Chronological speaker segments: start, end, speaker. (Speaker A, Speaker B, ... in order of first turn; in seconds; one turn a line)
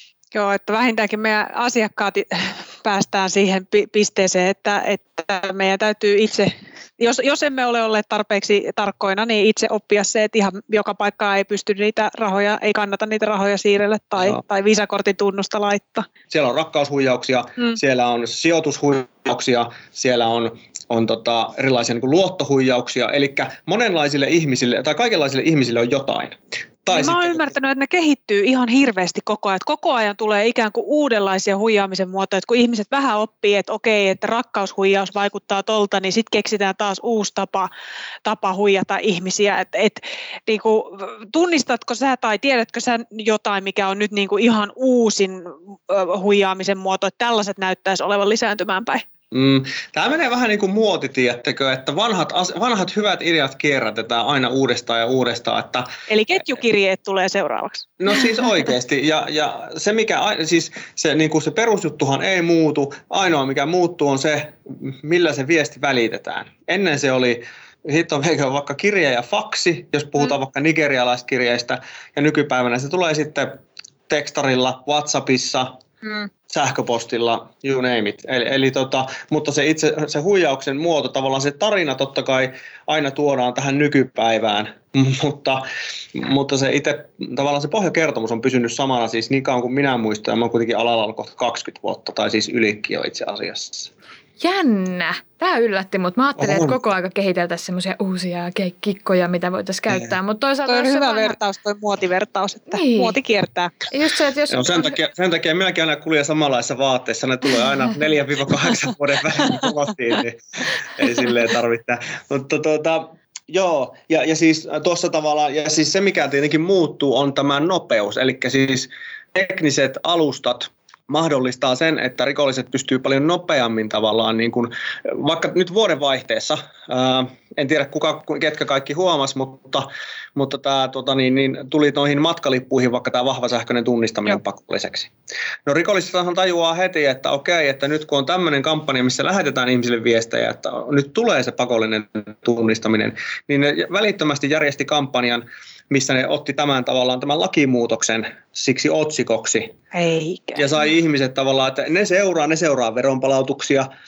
Speaker A: 0.3-16.1
Speaker B: 16.3-27.5
Speaker A: 26.9-37.7
Speaker A: 38.2-49.0
Speaker B: 49.3-55.9
Speaker A: 56.1-58.0
Speaker B: 58.0-75.7
Speaker A: 76.0-76.3
Speaker B: 76.5-93.9
Speaker C: 94.4-101.4
Speaker B: 96.4-96.8
Speaker A: 100.7-103.8
Speaker C: 102.7-103.2
Speaker C: 103.9-105.0
Speaker B: 104.5-135.1
Speaker B: 135.7-149.8
Speaker A: 149.9-150.7
Speaker B: 150.6-153.9